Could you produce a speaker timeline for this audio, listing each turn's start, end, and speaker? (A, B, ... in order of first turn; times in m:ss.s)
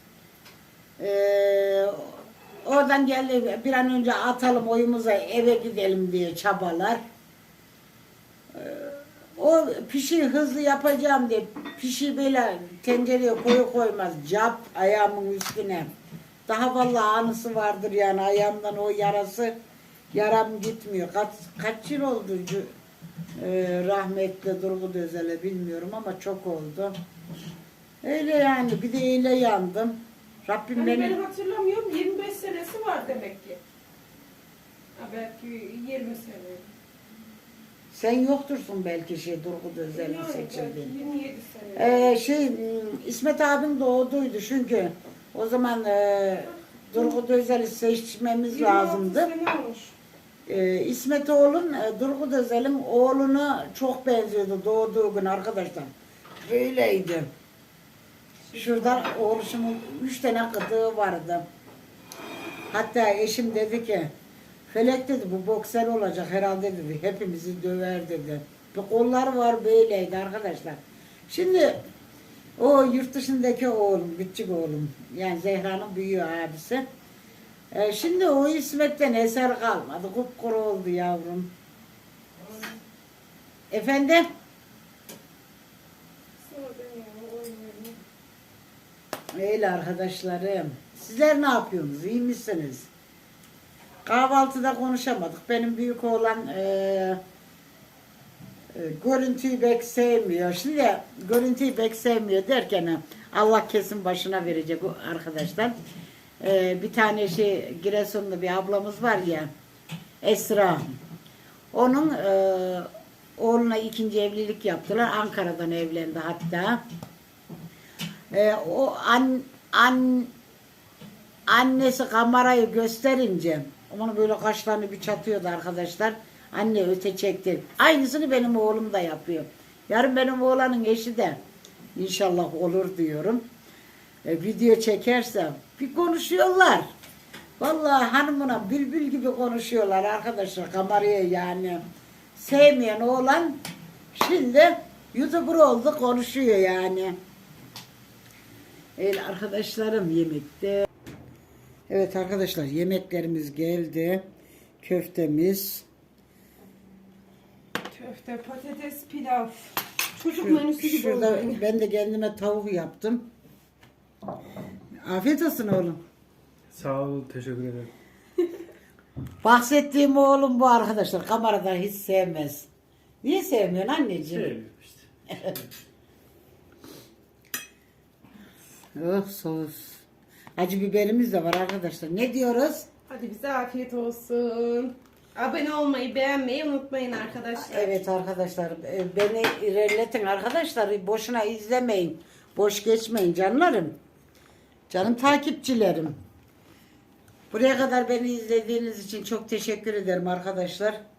0:01.0-0:07.0 A
0:08.5-0:15.9 A
0:16.5-0:19.5 A
0:20.1-0:22.7 A
0:23.4-0:26.9 A
0:28.0-0:31.2 A
0:30.7-0:33.6 B
0:35.0-0:36.7 B
0:37.9-0:40.9 A
0:39.9-0:42.1 B
0:41.8-0:49.3 A
0:48.5-0:50.0 B
0:50.5-0:55.9 A
0:56.4-0:57.3 A
0:58.5-0:59.1 B
0:58.5-1:01.4 A
1:02.7-1:04.1 A
1:04.7-1:11.8 A
1:12.6-1:16.8 A
1:17.7-1:21.5 A
1:23.7-1:24.3 A
1:26.4-1:28.0 B
1:29.3-1:32.9 A
1:34.0-1:37.2 A
1:38.7-1:45.8 A
1:46.4-1:49.5 A
1:50.2-1:50.9 A
1:51.7-1:56.8 A
1:58.3-2:00.3 A
2:01.5-2:11.4 A
2:12.0-2:13.4 A
2:14.2-2:16.9 A
2:17.6-2:21.8 A
2:22.4-2:23.6 A
2:24.1-2:27.2 A
2:29.0-2:30.8 A
2:31.9-2:34.2 A
2:34.8-2:35.8 A
2:37.9-2:41.6 B
2:40.3-2:43.2 A
2:45.0-2:46.0 A
2:46.7-2:47.9 C
2:49.4-2:52.7 A
2:53.2-2:54.5 A
2:54.3-2:55.0 C
2:59.0-3:00.0 A
3:00.6-3:02.9 A
3:03.1-3:08.0 B
3:07.6-3:13.9 A
3:14.9-3:16.2 A
3:17.5-3:21.0 A